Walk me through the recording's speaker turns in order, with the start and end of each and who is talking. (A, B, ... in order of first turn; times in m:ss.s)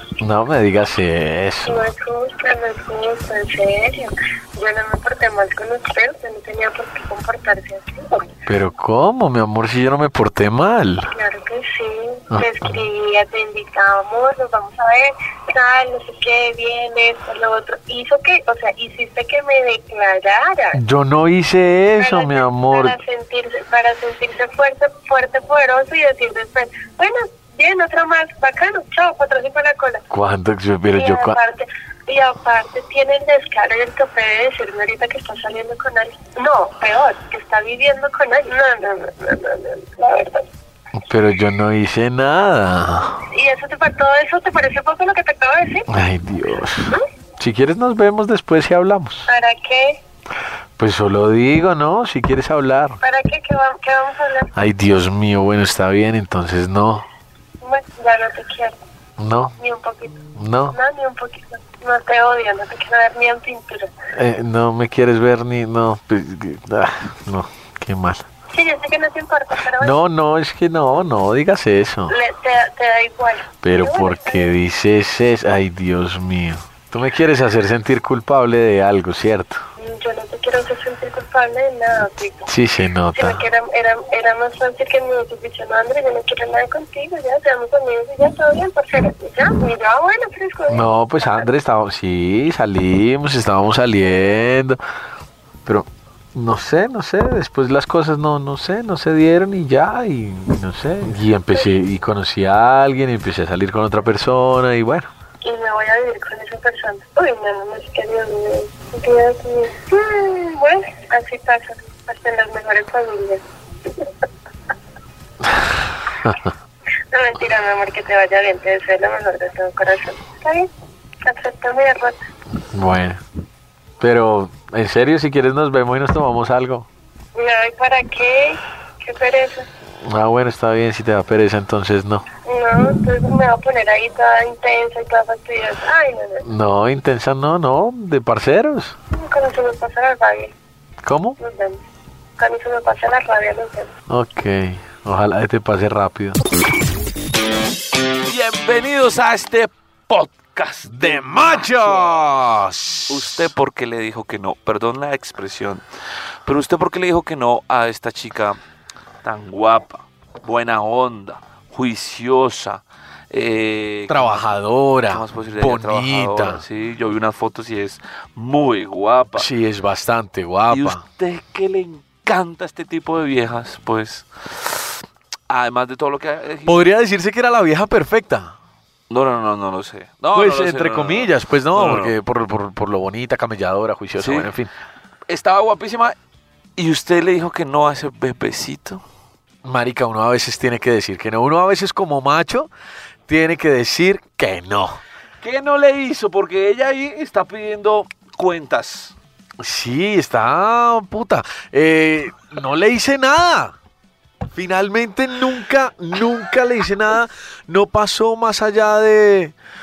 0:00.2-0:01.8 A
0:01.6-0:08.3 B
0:08.5-0:11.1 A
0:11.1-0:20.8 B
0:12.3-0:12.9 A
0:20.8-0:23.0 A
0:22.0-0:30.0 B
0:30.1-0:31.4 A
0:30.9-0:40.5 B
0:41.0-0:43.2 A
0:43.3-0:45.9 B
0:45.9-0:49.3 A
0:49.3-0:50.0 B
0:50.8-0:53.0 A
0:53.0-0:54.5 B
0:54.6-0:57.1 A
0:57.6-0:58.8 B
0:59.2-0:59.5 A
0:59.6-1:03.9 B
1:00.4-1:00.8 A
1:04.1-1:08.3 A
1:08.5-1:10.0 B
1:09.8-1:12.2 A
1:12.1-1:14.5 B
1:13.6-1:19.6 A
1:19.8-1:22.5 B
1:22.5-1:23.4 A
1:23.1-1:31.5 B
1:30.7-1:34.8 A
1:35.6-1:45.1 A
1:45.4-1:53.4 B
1:55.4-1:56.4 A
1:57.1-2:00.7 B
2:01.2-2:02.2 B
2:02.7-2:03.2 A
2:04.0-2:06.9 A
2:07.4-2:09.7 B
2:10.0-2:12.3 A
2:12.4-2:16.5 B
2:16.4-2:19.0 A
2:19.1-2:20.6 B
2:21.0-2:21.4 A
2:21.4-2:21.8 B
2:22.4-2:23.9 B
2:24.1-2:26.4 A
2:28.2-2:32.2 C
2:30.9-2:33.5 A
2:33.1-2:35.8 C
2:36.4-2:38.6 C
2:39.2-2:44.5 C
2:44.1-2:46.6 A
2:45.1-2:49.5 C
2:49.4-2:51.0 A
2:50.7-2:55.0 C
2:55.5-2:56.9 C
2:56.7-2:58.6 A
2:59.1-3:02.2 C
3:00.3-3:04.7 A
3:04.2-3:04.5 C
3:05.3-3:06.2 C
3:06.8-3:09.0 C
3:09.6-3:12.7 A
3:13.3-3:15.0 A
3:15.4-3:19.2 C
3:19.6-3:23.8 A
3:24.5-3:29.5 A